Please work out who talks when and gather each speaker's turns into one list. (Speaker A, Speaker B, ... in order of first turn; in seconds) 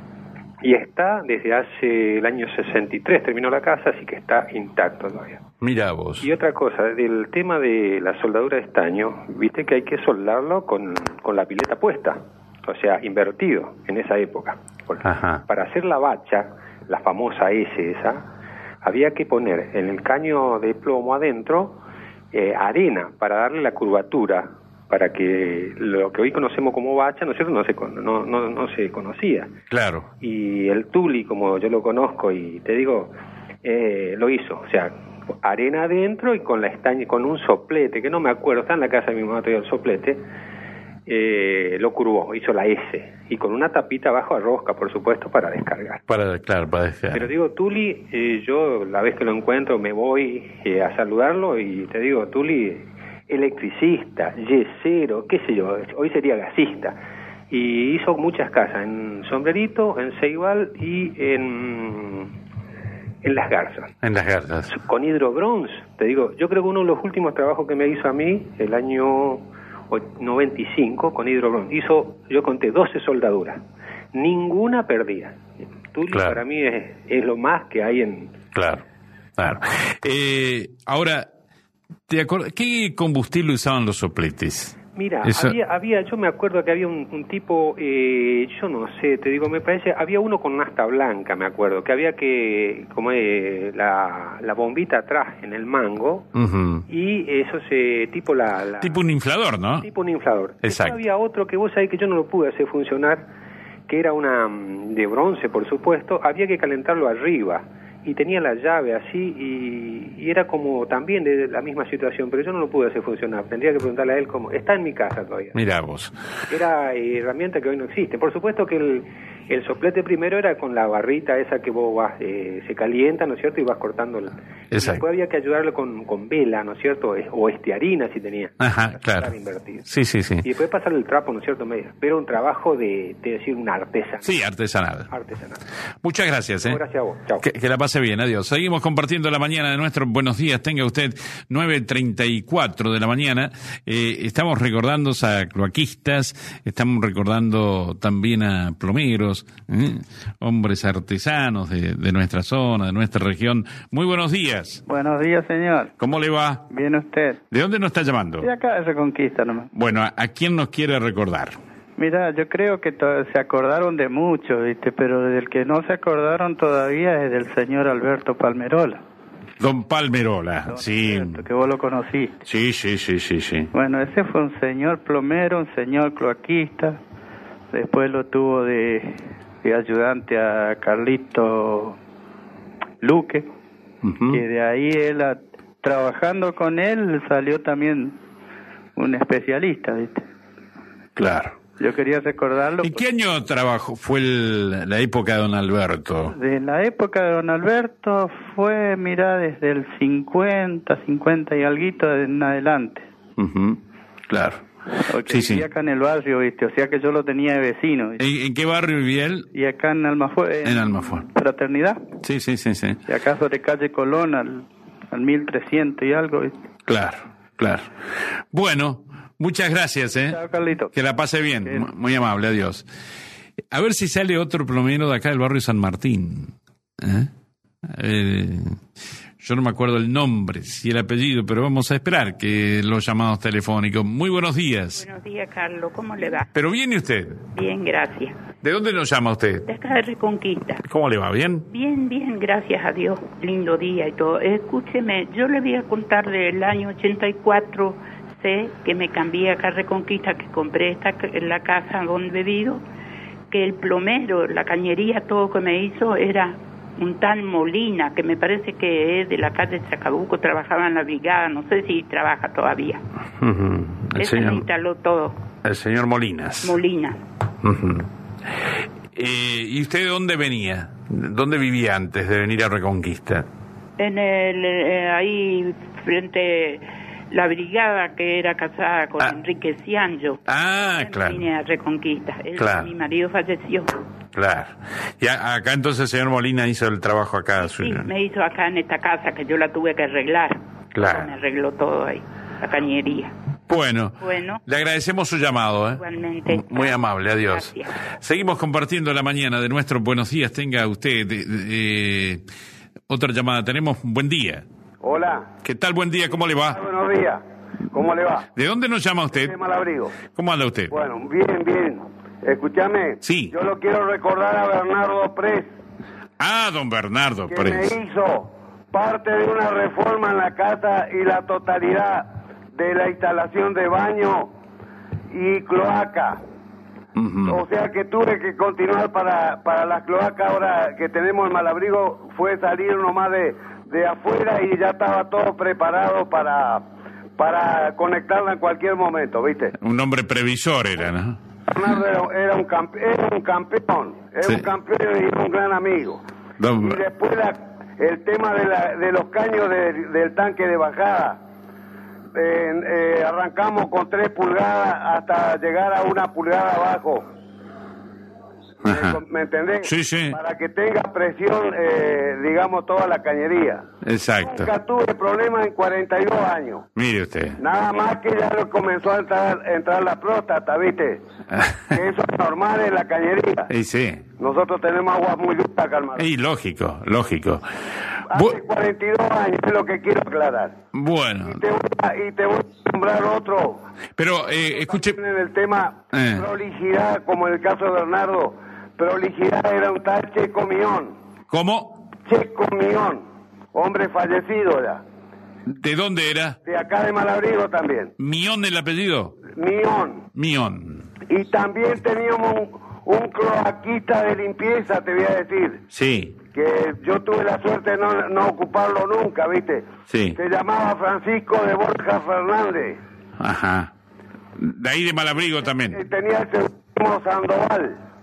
Speaker A: 0.6-5.4, 6.2-18.2, 18.8-21.8, 22.3-29.5, 30.2-40.2, 41.1-46.0, 47.1-56.9, 57.5-62.3, 63.2-63.9, 64.7-73.6, 74.1-78.3, 84.9-96.3, 96.9-99.0, 99.8-103.3, 103.9-115.5, 116.5-129.9, 130.4-134.3, 135.1-135.6, 136.6-137.4
Speaker B: 5.6-6.3, 15.0-15.4, 29.7-30.1, 46.1-47.3, 64.0-64.7, 76.1-76.4, 78.5-78.8, 79.4-81.3, 82.1-85.6, 96.3-96.8, 98.8-99.9, 100.6-101.0, 115.5-116.1, 124.7-125.0, 128.6-129.3, 129.8-130.4, 134.2-135.1, 136.0-136.8, 137.4-154.8, 156.0-156.7, 157.5-158.5, 159.7-161.6, 169.6-171.4, 172.4-173.7, 184.0-184.4, 191.2-191.5, 192.8-196.3, 203.4-204.6, 205.2-205.6, 208.2-209.5, 210.6-211.2, 212.2-213.0, 216.9-220.4, 220.9-222.8, 223.7-227.3, 227.8-228.8, 229.4-235.0, 236.5-237.4, 238.6-239.7, 240.8-241.7, 263.4-264.6, 265.6-266.7, 267.6-268.1, 269.1-273.4, 280.4-281.4, 282.6-282.9, 284.3-288.1, 290.9-291.3, 293.7-302.4, 303.1-304.6, 305.6-306.8, 308.5-309.5, 310.3-310.9, 313.2-313.5, 316.4-317.9, 327.1-327.6, 339.8-341.4, 344.4-344.7, 346.6-347.0, 358.8-359.2, 359.8-360.4, 364.0-364.7, 366.9-367.6, 371.5-371.9, 373.7-374.2, 376.1-377.6, 378.3-378.6, 380.9-381.6, 384.2-385.2, 386.1-386.5, 391.5-392.0, 395.7-396.6, 398.2-399.4, 400.3-401.0, 405.9-406.3, 410.1-410.4, 413.4-413.9, 414.6-416.0
Speaker C: 154.9-155.9, 156.7-157.4, 158.4-159.7, 162.0-169.0, 170.7-172.4, 173.7-177.0, 177.7-182.0, 183.0-183.5, 184.3-188.1, 188.9-190.2, 191.8-193.0, 196.3-203.0, 205.1-208.2, 209.5-212.0, 213.1-216.5, 220.3-220.9
Speaker D: 234.9-236.5, 237.5-238.4, 239.7-240.8, 241.7-252.8, 253.5-263.0, 264.1-265.4, 266.6-267.2, 274.0-283.9, 287.6-293.3, 294.2-294.6, 295.9-298.0
Speaker E: 305.0-305.5, 306.7-308.5, 309.3-310.2, 310.9-315.7, 317.5-324.5, 325.3-326.4, 327.4-336.8, 337.4-339.7, 341.7-346.2, 346.8-351.4, 352.3-357.2, 358.9-363.9, 364.4-366.8, 367.6-371.2, 371.9-373.7, 374.4-376.3, 378.3-380.7, 381.4-383.8, 384.7-391.1, 392.2-393.2, 393.7-395.0, 396.6-398.1, 399.5-400.2, 401.3-405.8, 406.5-413.0, 415.9-418.0